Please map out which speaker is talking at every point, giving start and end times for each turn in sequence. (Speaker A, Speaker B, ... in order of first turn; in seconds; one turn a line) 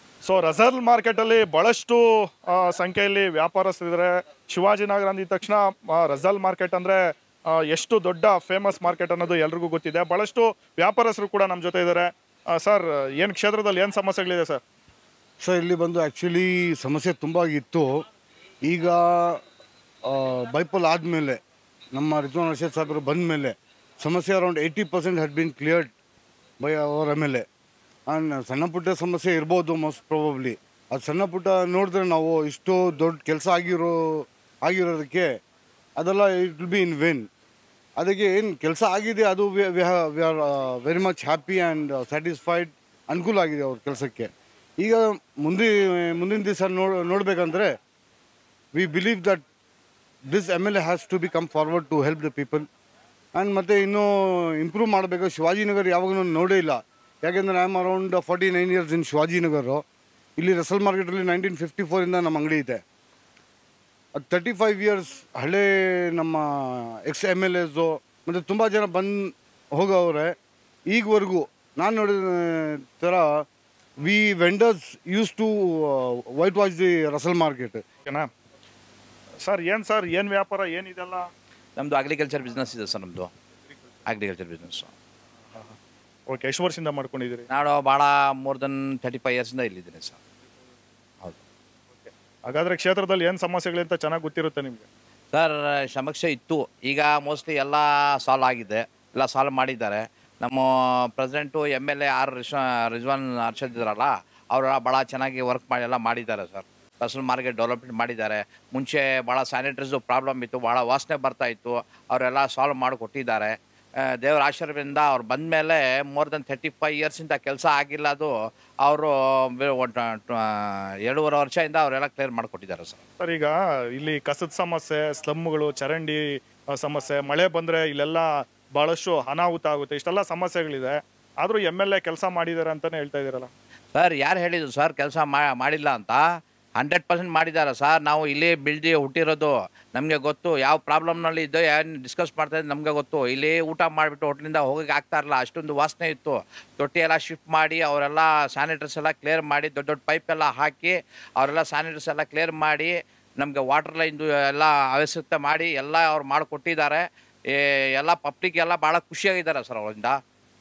Speaker A: 0.2-14.6
Speaker B: 15.4-18.0
Speaker B: 18.7-19.4
Speaker B: 20.1-21.4
Speaker B: 21.9-25.9
Speaker B: 26.6-27.4
Speaker B: 28.1-35.3
Speaker B: 36.0-37.3
Speaker B: 38.0-47.8
Speaker B: 48.8-49.4
Speaker B: 50.3-52.7
Speaker B: 53.4-59.8
Speaker B: 60.4-62.8
Speaker B: 64.2-70.3
Speaker B: 70.9-73.4
Speaker B: 74.0-77.8
Speaker A: 79.5-81.3
Speaker C: 81.8-83.3
Speaker C: 84.1-84.9
Speaker A: 86.3-87.5
Speaker C: 87.5-90.2
Speaker A: 92.5-94.9
Speaker C: 95.3-118.3
Speaker C: 118.8-123.0
Speaker A: 123.2-133.5
Speaker C: 133.9-136.2
Speaker C: 136.8-160.2